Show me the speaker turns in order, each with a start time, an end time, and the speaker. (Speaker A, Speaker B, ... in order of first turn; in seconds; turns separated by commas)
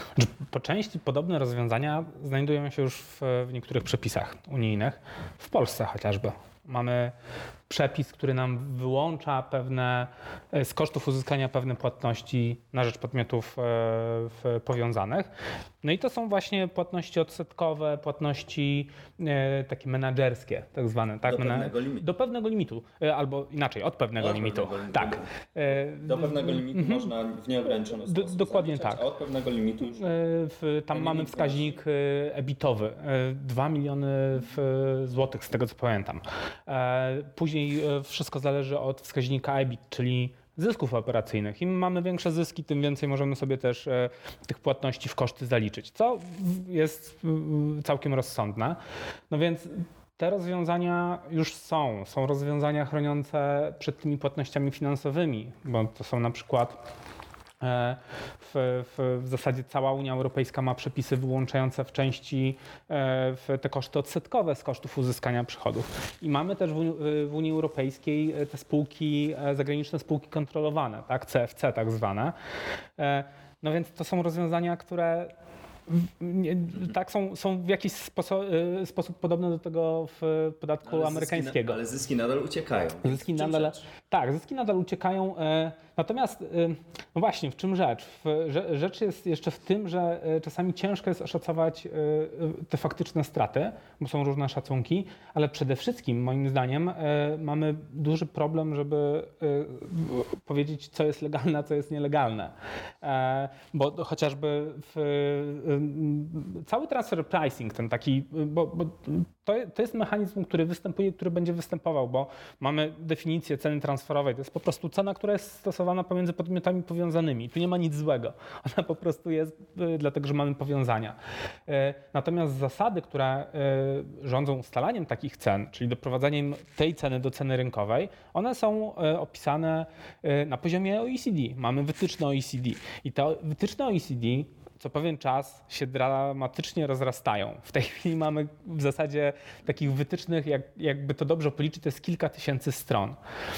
Speaker A: 0.2-7.1, Speaker A: 7.7-15.3, Speaker A: 15.8-27.1, Speaker B: 21.2-22.1, Speaker B: 24.2-25.3, Speaker B: 25.9-30.1, Speaker A: 28.1-29.0, Speaker A: 29.9-48.8, Speaker B: 30.9-31.8, Speaker A: 49.3-56.8, Speaker A: 57.6-72.3, Speaker A: 73.0-75.3, Speaker A: 75.9-81.8, Speaker B: 80.9-83.8, Speaker A: 83.0-143.2